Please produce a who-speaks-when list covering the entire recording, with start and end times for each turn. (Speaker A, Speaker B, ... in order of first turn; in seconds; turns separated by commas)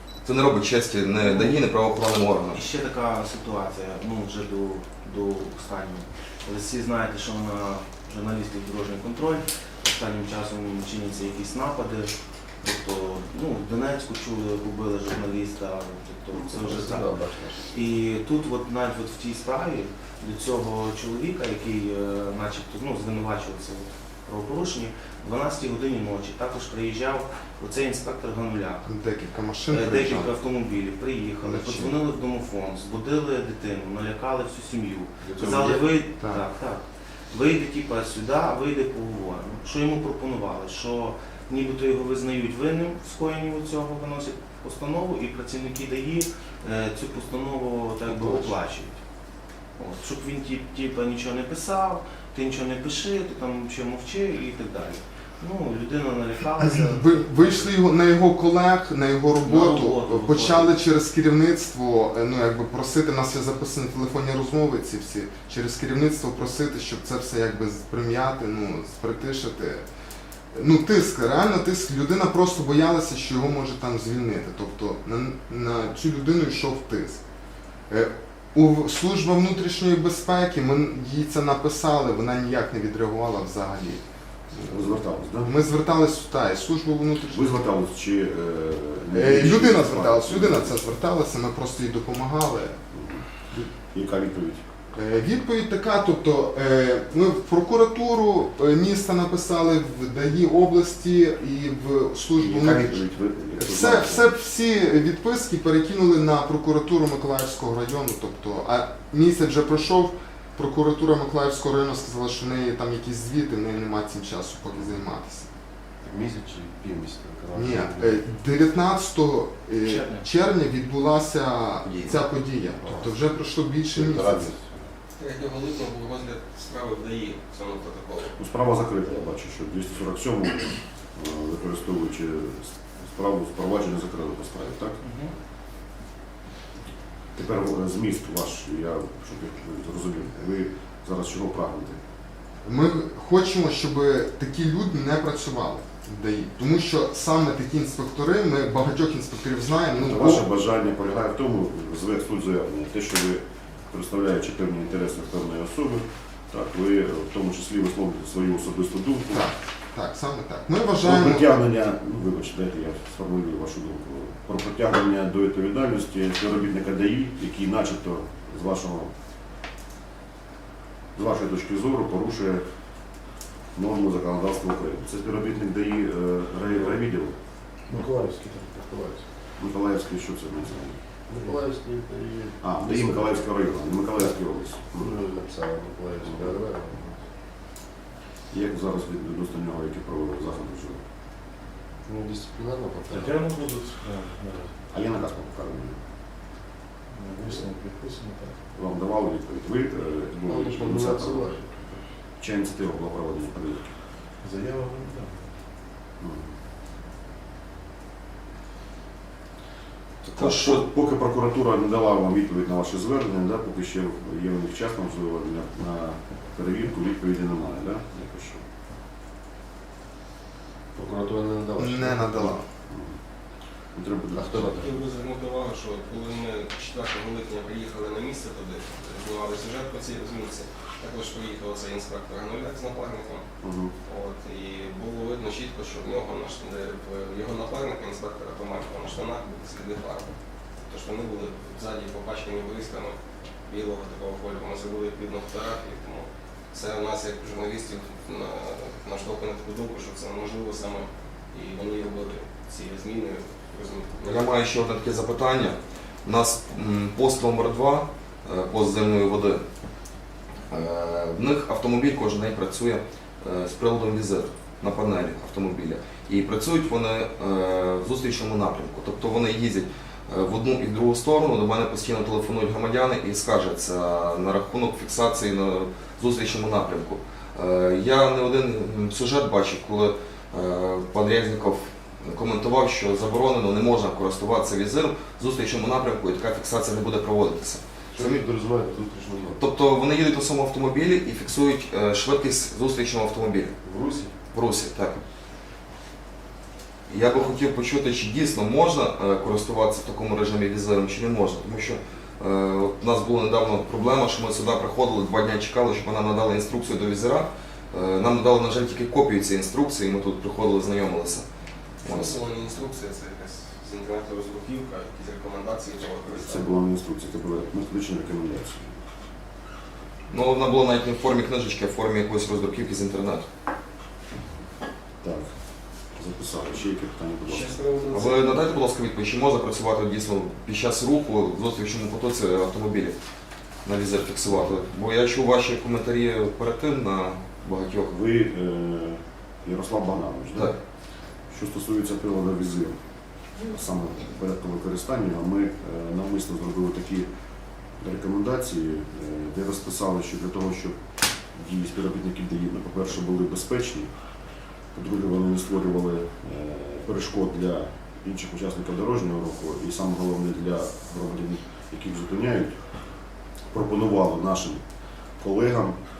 Speaker A: 0.2-2.6, Speaker B: 1.2-1.5, Speaker B: 2.5-17.1, Speaker C: 16.3-17.7, Speaker B: 17.7-28.8, Speaker D: 28.8-30.3, Speaker B: 29.7-49.0, Speaker D: 31.4-32.0, Speaker B: 49.8-57.2, Speaker D: 56.8-69.8, Speaker B: 59.4-60.8, Speaker D: 70.5-77.2, Speaker D: 77.9-87.6, Speaker E: 84.6-85.6, Speaker E: 87.2-90.8, Speaker D: 89.1-92.8, Speaker E: 92.9-94.6, Speaker D: 94.9-103.0, Speaker E: 102.3-104.3, Speaker D: 103.5-115.5, Speaker C: 116.0-118.2, Speaker D: 117.5-124.5, Speaker B: 119.8-120.3, Speaker A: 121.8-122.2, Speaker C: 122.8-123.1, Speaker C: 123.9-124.9, Speaker F: 125.2-128.4, Speaker E: 128.4-134.9, Speaker B: 135.0-135.3, Speaker E: 137.4-142.0, Speaker D: 142.6-150.5, Speaker E: 149.9-159.5, Speaker D: 159.3-161.5, Speaker E: 161.0-169.1, Speaker E: 171.2-172.6, Speaker E: 173.8-177.3, Speaker C: 177.9-179.2, Speaker E: 179.6-181.0, Speaker C: 181.3-184.4, Speaker E: 182.6-185.3, Speaker C: 185.0-187.2, Speaker E: 186.2-186.6, Speaker E: 188.5-191.0, Speaker C: 192.1-193.4, Speaker G: 193.1-194.7, Speaker E: 194.9-196.0, Speaker G: 197.1-198.5, Speaker E: 198.8-203.9, Speaker C: 200.5-201.6, Speaker G: 204.4-205.4, Speaker E: 206.2-206.5, Speaker E: 210.2-218.6, Speaker A: 210.3-210.9, Speaker C: 220.9-222.5, Speaker D: 221.8-222.7, Speaker E: 222.9-223.2, Speaker E: 223.9-224.8, Speaker C: 224.3-224.9, Speaker F: 224.8-233.4, Speaker E: 233.6-233.9, Speaker F: 234.0-254.5, Speaker A: 254.2-259.6, Speaker A: 260.7-288.4, Speaker C: 288.1-289.6, Speaker A: 289.6-293.8, Speaker C: 293.8-294.4, Speaker A: 294.5-295.2, Speaker A: 297.1-311.4, Speaker A: 312.0-312.4, Speaker F: 312.0-316.7, Speaker E: 316.2-318.9, Speaker A: 320.3-323.4, Speaker E: 325.2-325.5, Speaker E: 326.2-327.8, Speaker F: 327.5-328.6, Speaker A: 328.1-333.1, Speaker A: 333.9-338.1, Speaker E: 338.1-340.8, Speaker E: 341.5-342.9, Speaker E: 343.6-347.3, Speaker E: 348.0-350.9, Speaker E: 351.6-354.1, Speaker E: 354.9-362.8, Speaker E: 363.7-364.8, Speaker E: 365.4-366.0